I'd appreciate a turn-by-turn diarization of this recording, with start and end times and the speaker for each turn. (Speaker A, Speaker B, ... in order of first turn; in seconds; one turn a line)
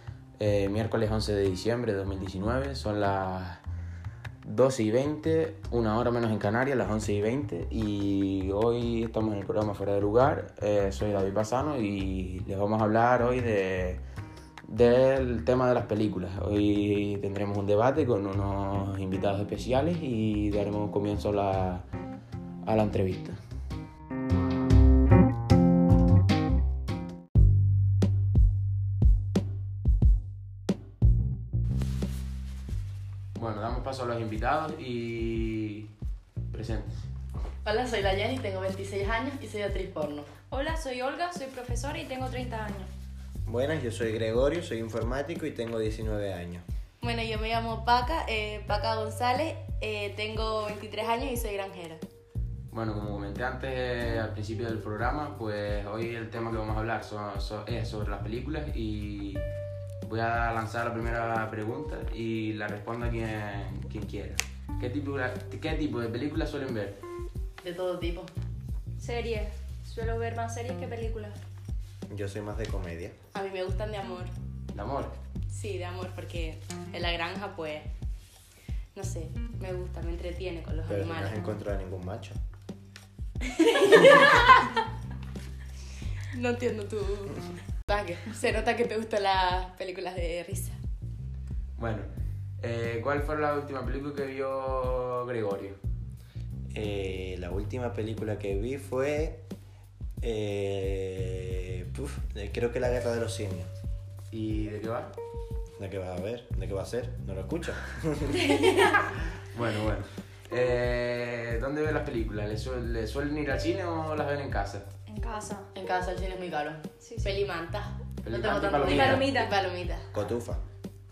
Speaker A: 0.4-3.6
Speaker A: 4.4-14.0
Speaker A: 14.7-21.9
Speaker A: 22.6-23.4
Speaker A: 33.4-35.9
Speaker A: 36.5-37.0
Speaker B: 37.6-40.3
Speaker C: 40.5-42.9
Speaker D: 43.5-46.6
Speaker E: 47.0-52.0
Speaker A: 52.7-59.4
Speaker A: 60.0-67.0
Speaker B: 67.6-68.3
Speaker C: 69.0-71.4
Speaker D: 72.1-73.2
Speaker E: 73.3-74.3
Speaker A: 74.7-75.2
Speaker E: 75.5-77.9
Speaker E: 79.0-81.4
Speaker D: 80.9-82.4
Speaker E: 83.5-84.6
Speaker E: 86.3-90.8
Speaker A: 91.8-92.1
Speaker A: 92.6-95.8
Speaker D: 96.7-99.4
Speaker D: 100.2-103.7
Speaker A: 104.3-105.2
Speaker D: 105.8-108.6
Speaker A: 109.4-114.9
Speaker C: 115.1-115.7
Speaker B: 115.8-116.8
Speaker C: 117.0-117.3
Speaker E: 117.2-118.0
Speaker A: 118.2-119.3
Speaker B: 118.3-119.3
Speaker E: 118.9-120.1
Speaker C: 118.9-119.5
Speaker D: 120.1-120.6